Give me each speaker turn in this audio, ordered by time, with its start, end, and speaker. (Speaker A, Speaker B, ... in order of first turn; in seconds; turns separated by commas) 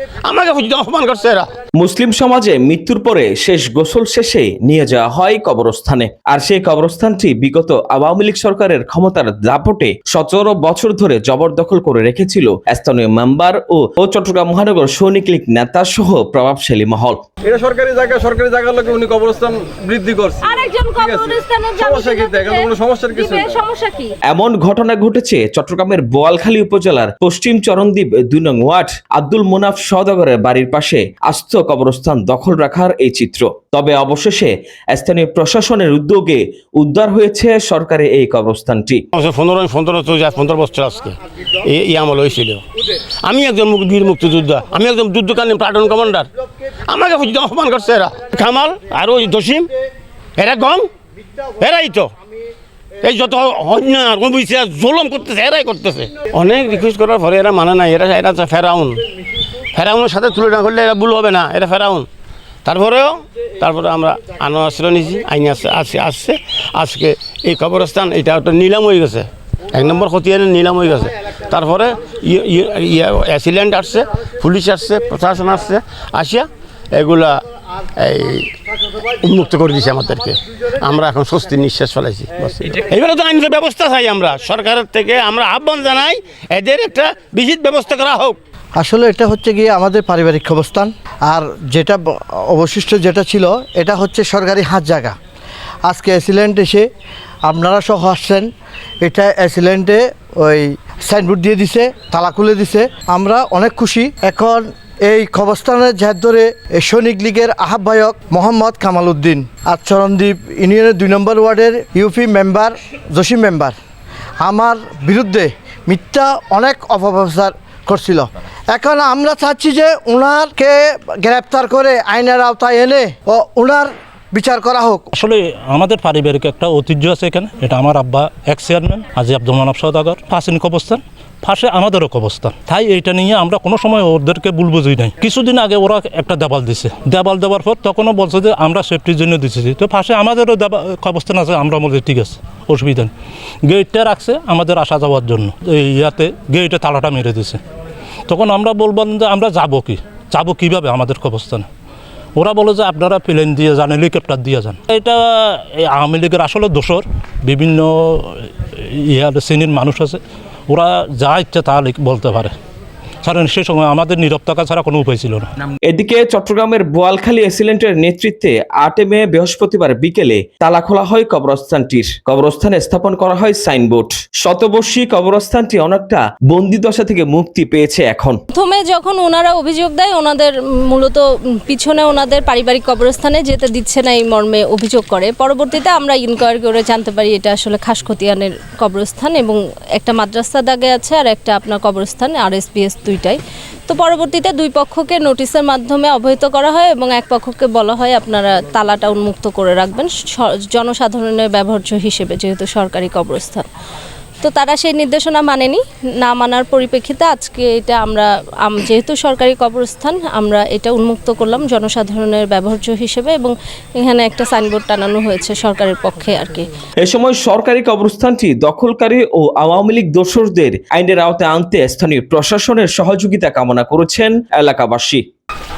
Speaker A: 0.2-1.5, Speaker B: 1.8-17.2, Speaker C: 17.5-20.5, Speaker D: 20.4-24.1, Speaker C: 21.0-21.3, Speaker C: 21.8-23.6, Speaker B: 24.3-39.0, Speaker A: 39.1-42.6, Speaker A: 43.2-46.3, Speaker A: 46.9-49.7, Speaker A: 50.4-50.9, Speaker A: 51.6-52.1, Speaker A: 53.0-59.0, Speaker A: 59.7-62.1, Speaker A: 62.6-77.4, Speaker A: 78.0-88.4, Speaker E: 88.8-95.2, Speaker E: 95.9-96.9, Speaker E: 97.5-98.5, Speaker E: 99.0-113.7, Speaker E: 114.4-125.0, Speaker F: 125.2-143.1, Speaker F: 143.7-147.6, Speaker F: 148.3-151.7, Speaker F: 152.4-158.5, Speaker F: 159.1-162.5, Speaker F: 163.2-165.5, Speaker B: 165.9-178.4, Speaker D: 178.5-203.7, Speaker D: 204.4-216.7, Speaker B: 217.0-225.2